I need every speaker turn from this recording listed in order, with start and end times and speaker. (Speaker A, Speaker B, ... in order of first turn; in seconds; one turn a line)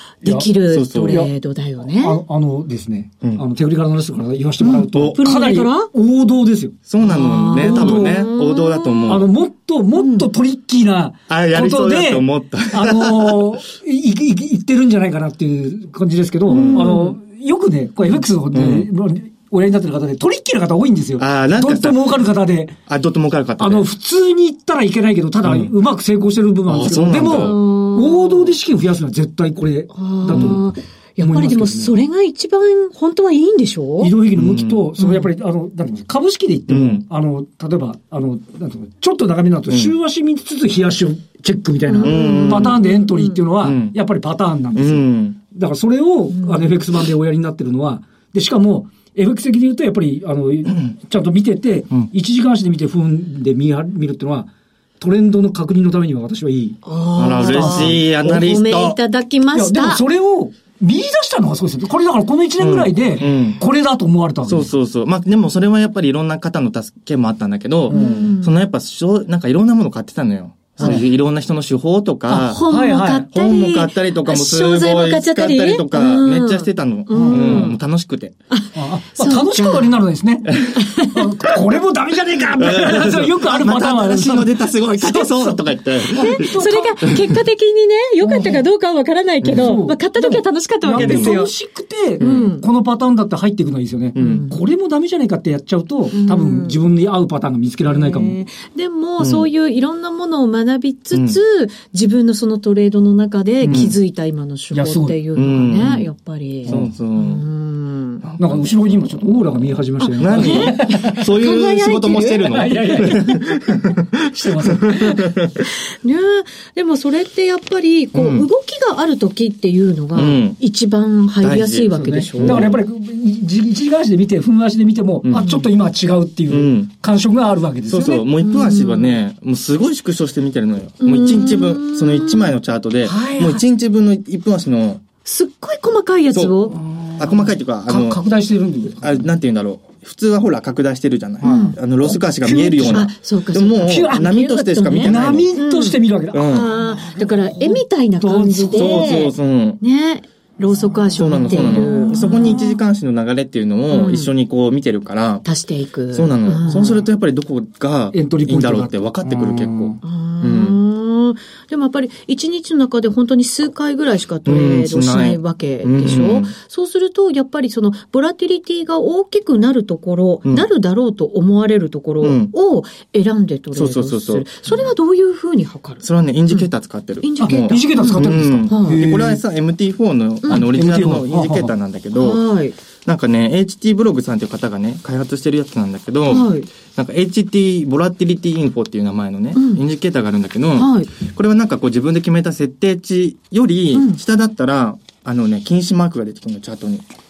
Speaker A: 0.2-0.5
Speaker B: 0.2-2.2
Speaker C: 0.7-1.2
Speaker A: 1.0-8.3
Speaker B: 4.6-5.9
Speaker C: 4.9-5.2
Speaker C: 6.9-9.3
Speaker B: 7.0-9.2
Speaker A: 9.1-22.8
Speaker B: 10.0-10.3
Speaker C: 11.3-13.5
Speaker C: 16.5-17.0
Speaker B: 16.5-17.1
Speaker C: 18.5-18.9
Speaker C: 21.2-22.0
Speaker C: 22.9-23.9
Speaker A: 23.6-30.6
Speaker C: 25.4-25.7
Speaker C: 26.7-27.6
Speaker B: 27.2-28.5
Speaker B: 29.9-34.1
Speaker C: 30.3-30.6
Speaker A: 31.2-31.9
Speaker A: 34.0-56.8
Speaker C: 34.4-34.9
Speaker B: 35.0-35.3
Speaker C: 36.7-37.0
Speaker B: 41.9-43.4
Speaker C: 42.0-42.8
Speaker C: 43.6-44.0
Speaker C: 44.7-45.4
Speaker B: 46.3-46.8
Speaker C: 50.7-51.0
Speaker B: 56.8-60.0
Speaker C: 57.2-59.0
Speaker A: 57.4-58.4
Speaker A: 59.5-64.7
Speaker C: 62.6-63.6
Speaker C: 64.4-72.6
Speaker A: 67.9-68.3
Speaker B: 67.9-68.5
Speaker A: 70.8-71.1
Speaker B: 72.3-77.8
Speaker A: 72.6-73.3
Speaker C: 73.3-78.3
Speaker A: 77.1-77.8
Speaker B: 78.5-80.0
Speaker A: 78.7-87.2
Speaker B: 80.5-81.5
Speaker C: 82.6-87.1
Speaker B: 86.1-91.5
Speaker A: 88.2-88.6
Speaker A: 89.4-98.4
Speaker C: 91.0-91.3
Speaker B: 92.2-92.7
Speaker C: 92.2-92.5
Speaker C: 94.1-94.4
Speaker B: 94.2-94.6
Speaker B: 96.1-96.8
Speaker B: 97.8-108.2
Speaker C: 99.2-99.5
Speaker C: 101.1-101.4
Speaker A: 103.6-103.9
Speaker C: 103.7-103.9
Speaker A: 104.7-105.9
Speaker C: 105.3-106.0
Speaker A: 106.7-106.9
Speaker C: 106.7-107.4
Speaker C: 108.2-108.8
Speaker A: 108.4-111.3
Speaker B: 110.0-113.3
Speaker C: 110.2-115.7
Speaker A: 112.4-113.4
Speaker A: 114.2-115.3
Speaker B: 116.0-122.7
Speaker C: 118.1-118.5
Speaker C: 120.1-120.6
Speaker C: 121.4-122.8
Speaker A: 121.9-128.2
Speaker C: 125.2-125.6
Speaker B: 125.4-125.7
Speaker C: 126.5-126.9
Speaker C: 127.9-135.0
Speaker B: 128.4-129.2
Speaker B: 131.0-132.5
Speaker A: 133.1-133.6
Speaker B: 135.2-136.8
Speaker C: 136.3-138.2
Speaker A: 136.8-139.3
Speaker C: 139.0-145.5
Speaker A: 141.4-143.1
Speaker B: 141.4-141.8
Speaker B: 142.8-152.8
Speaker A: 143.8-144.3
Speaker A: 145.0-149.3
Speaker C: 146.3-146.7
Speaker C: 148.7-149.8
Speaker C: 151.1-155.4
Speaker A: 151.4-152.3
Speaker B: 153.9-154.3
Speaker B: 155.4-157.0
Speaker C: 156.1-160.8
Speaker A: 158.1-160.0
Speaker B: 160.0-176.6
Speaker C: 164.4-166.5
Speaker C: 172.2-172.5
Speaker C: 173.7-174.8
Speaker C: 176.0-182.4
Speaker B: 177.2-179.0
Speaker A: 177.4-179.4
Speaker A: 180.5-181.7
Speaker B: 182.1-182.8
Speaker C: 183.0-197.0
Speaker B: 186.3-186.7
Speaker B: 189.5-189.8
Speaker B: 190.7-191.1
Speaker B: 193.9-194.2